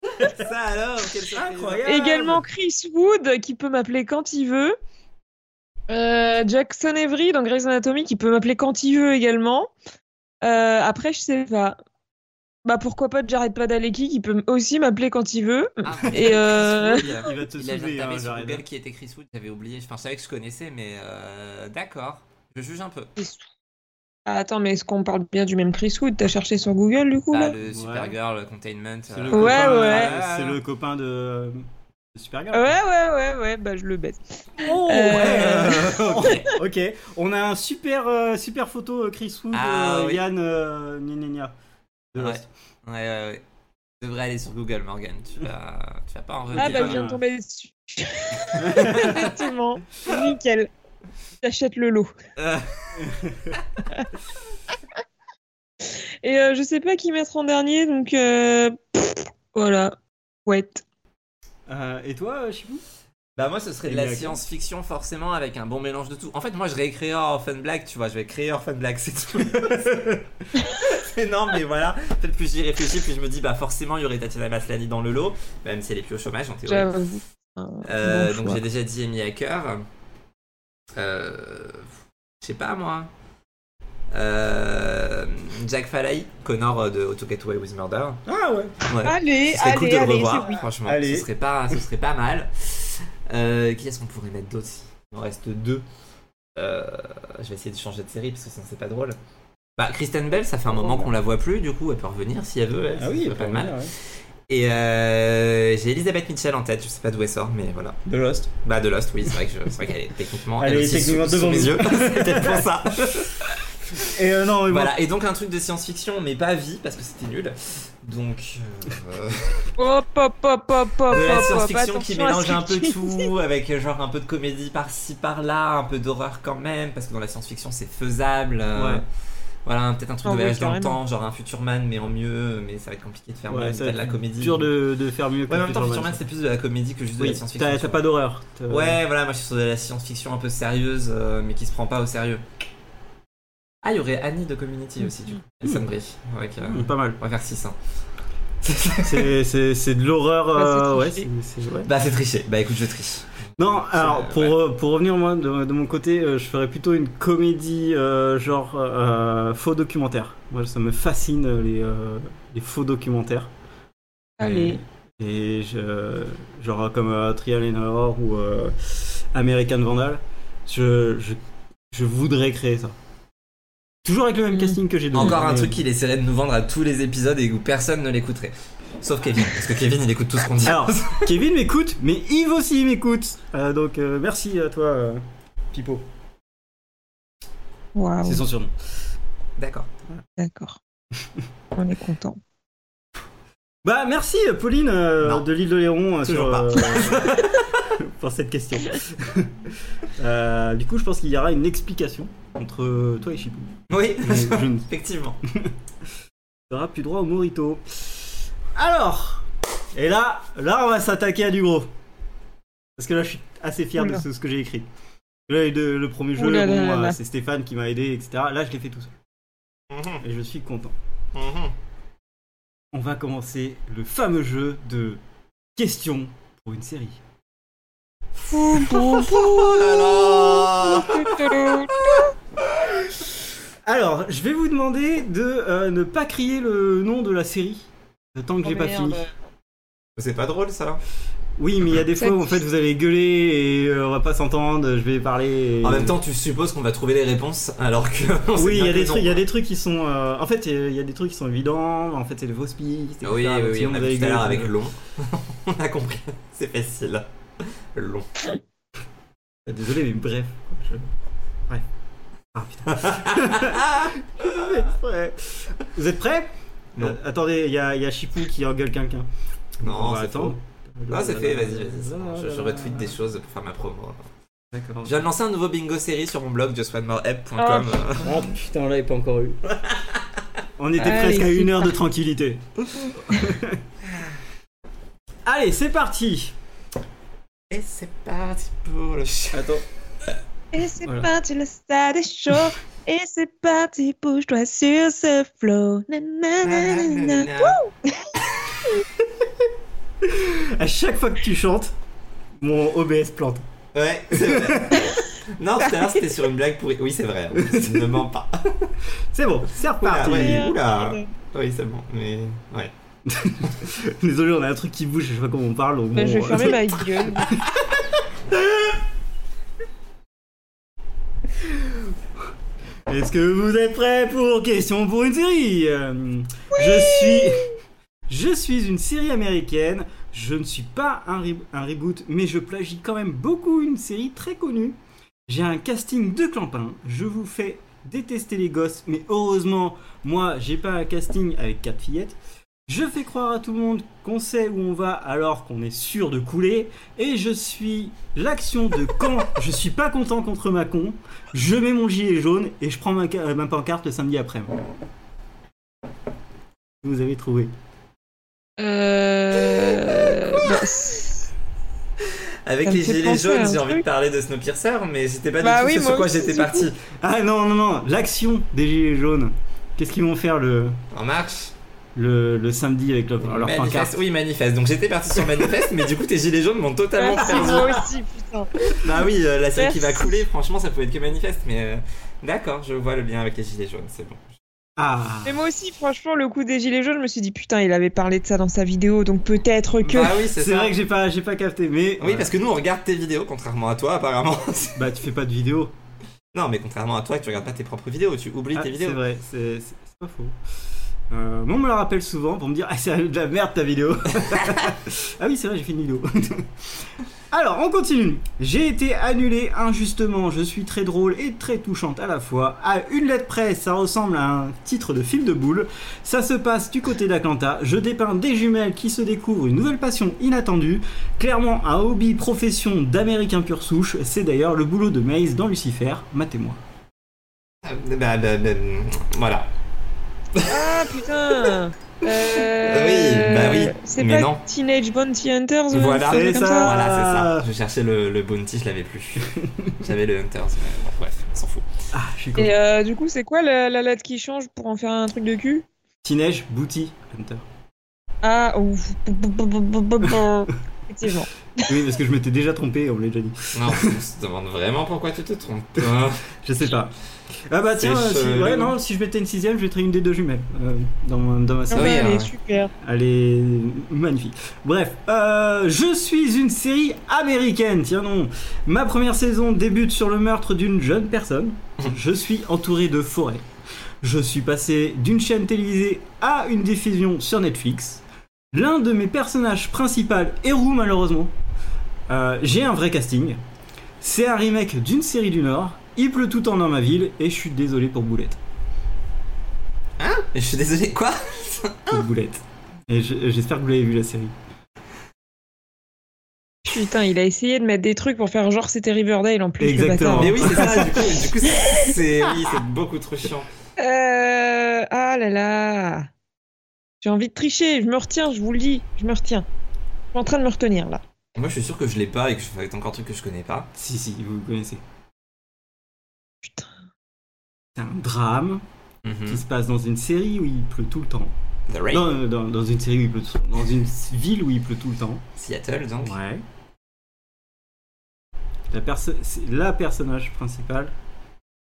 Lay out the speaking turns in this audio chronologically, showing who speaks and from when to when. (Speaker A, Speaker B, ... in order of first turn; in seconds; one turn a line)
Speaker A: 0.2-1.9
Speaker B: 1.3-2.4
Speaker C: 1.8-4.8
Speaker C: 5.9-9.7
Speaker C: 10.4-11.8
Speaker C: 12.6-17.2
Speaker A: 15.8-23.1
Speaker B: 17.0-18.6
Speaker C: 23.2-23.4
Speaker C: 24.2-27.6
Speaker A: 27.3-30.6
Speaker B: 27.6-28.1
Speaker B: 29.1-31.6
Speaker C: 29.3-30.1
Speaker B: 32.1-32.7
Speaker C: 32.5-36.5
Speaker B: 34.6-41.5
Speaker A: 35.1-36.5
Speaker A: 39.5-40.2
Speaker B: 42.1-42.5
Speaker A: 42.2-43.4
Speaker A: 44.0-47.1
Speaker B: 46.5-47.2
Speaker C: 46.5-50.7
Speaker A: 48.4-49.3
Speaker B: 48.5-49.3
Speaker C: 51.4-52.1
Speaker A: 52.4-53.0
Speaker B: 52.9-53.6
Speaker C: 56.2-60.8
Speaker B: 61.7-62.8
Speaker A: 63.4-76.9
Speaker B: 63.8-64.4
Speaker C: 76.7-78.6
Speaker A: 77.8-79.8
Speaker A: 80.9-83.1
Speaker A: 84.1-88.2
Speaker B: 88.2-88.8
Speaker A: 88.9-95.8
Speaker C: 89.0-90.6
Speaker B: 90.8-91.3
Speaker A: 96.5-99.2
Speaker A: 99.8-108.0
Speaker B: 100.7-101.1
Speaker B: 103.0-103.9
Speaker B: 108.0-108.5
Speaker A: 108.6-114.1
Speaker B: 110.6-112.7
Speaker B: 114.0-114.9
Speaker A: 114.7-119.7
Speaker C: 119.8-123.3
Speaker A: 121.1-129.0
Speaker B: 128.7-129.0
Speaker A: 129.6-134.7
Speaker C: 130.2-131.0
Speaker B: 133.5-136.2
Speaker A: 135.5-138.0
Speaker B: 137.2-139.0
Speaker A: 138.7-142.4
Speaker A: 143.8-147.8
Speaker B: 146.6-147.2
Speaker A: 148.6-149.3
Speaker B: 149.0-151.9
Speaker C: 150.6-151.2
Speaker A: 151.8-154.6
Speaker B: 153.6-163.5
Speaker C: 164.4-164.8
Speaker B: 164.4-171.4
Speaker B: 171.9-172.9
Speaker B: 174.0-175.8
Speaker C: 174.5-174.8
Speaker A: 175.1-181.3
Speaker B: 180.6-186.0
Speaker C: 187.9-188.4
Speaker B: 188.2-188.7
Speaker A: 189.6-189.9
Speaker C: 190.4-190.8
Speaker C: 191.7-192.4
Speaker B: 193.8-204.9
Speaker A: 196.2-197.8
Speaker A: 203.9-205.4
Speaker B: 206.7-211.9
Speaker B: 213.0-214.9
Speaker C: 214.0-214.2
Speaker B: 215.5-219.1
Speaker C: 216.4-217.2
Speaker A: 219.9-220.2
Speaker B: 220.2-220.9
Speaker A: 221.3-221.7
Speaker B: 222.9-225.2
Speaker B: 225.8-227.2
Speaker C: 228.5-232.3
Speaker A: 228.7-233.1
Speaker B: 233.8-239.2
Speaker C: 238.6-239.3
Speaker A: 240.2-241.0
Speaker B: 241.6-246.2
Speaker C: 242.2-242.6
Speaker A: 245.8-249.4
Speaker B: 248.6-254.8
Speaker A: 253.2-258.3
Speaker B: 259.6-261.1
Speaker B: 262.5-269.3
Speaker A: 262.9-264.8
Speaker B: 269.8-273.2
Speaker A: 269.8-270.6
Speaker A: 271.1-274.2
Speaker B: 274.7-275.1
Speaker A: 275.0-278.5
Speaker C: 277.6-278.0
Speaker B: 278.2-279.6
Speaker A: 279.7-280.4
Speaker B: 280.8-283.8
Speaker C: 281.0-282.0
Speaker C: 283.1-283.4
Speaker A: 284.0-284.4
Speaker B: 285.4-286.5
Speaker A: 287.7-289.7
Speaker B: 289.5-289.8
Speaker C: 290.7-298.3
Speaker B: 291.0-291.3
Speaker A: 296.6-297.8
Speaker B: 300.2-301.9
Speaker B: 302.6-303.7
Speaker A: 303.9-308.9
Speaker B: 304.3-305.1
Speaker B: 307.5-308.1
Speaker B: 309.3-310.7
Speaker A: 309.8-312.9
Speaker C: 310.2-311.3
Speaker B: 313.2-317.7
Speaker C: 316.1-317.6
Speaker B: 321.6-322.1
Speaker B: 323.1-327.7
Speaker C: 326.8-327.6
Speaker B: 328.3-354.7
Speaker B: 357.0-357.7
Speaker C: 358.8-361.5
Speaker A: 362.2-367.0
Speaker C: 362.8-364.0
Speaker C: 365.6-366.9
Speaker B: 367.1-371.0
Speaker A: 371.1-371.7
Speaker B: 372.1-374.2
Speaker A: 373.4-378.0
Speaker C: 377.2-378.9
Speaker B: 377.4-378.0
Speaker A: 378.9-384.4
Speaker C: 379.8-380.4
Speaker B: 385.0-385.6
Speaker C: 385.4-390.4
Speaker A: 390.0-390.9
Speaker B: 390.1-392.5
Speaker A: 392.2-395.0
Speaker B: 394.9-395.9
Speaker A: 396.5-399.2
Speaker B: 398.7-400.5
Speaker B: 401.3-426.8
Speaker A: 427.8-429.7
Speaker A: 430.5-431.7
Speaker C: 430.6-436.9
Speaker A: 432.3-434.6
Speaker A: 435.9-439.5
Speaker B: 436.2-437.6
Speaker B: 439.4-440.0
Speaker A: 440.0-441.9
Speaker B: 442.1-442.7
Speaker C: 442.6-445.9
Speaker B: 446.2-447.6
Speaker C: 448.4-451.9
Speaker B: 451.9-454.1
Speaker A: 453.7-456.4
Speaker B: 456.6-457.1
Speaker B: 457.7-462.3
Speaker A: 458.0-458.9
Speaker A: 461.9-462.5
Speaker C: 461.9-462.9
Speaker B: 463.0-473.6
Speaker B: 474.2-481.5
Speaker B: 482.3-483.6
Speaker B: 484.2-488.6
Speaker A: 490.2-492.2
Speaker B: 492.1-494.5
Speaker C: 496.8-501.2
Speaker B: 499.8-501.2
Speaker A: 500.3-503.7
Speaker C: 504.0-506.3
Speaker C: 507.2-509.7
Speaker C: 510.3-511.2
Speaker A: 511.5-513.9
Speaker B: 513.9-515.0
Speaker C: 516.6-516.9
Speaker B: 518.0-518.8
Speaker A: 519.2-519.6
Speaker B: 519.5-521.5
Speaker A: 521.9-522.3
Speaker B: 522.1-525.4
Speaker A: 525.6-526.4
Speaker B: 526.2-526.6
Speaker B: 528.9-531.1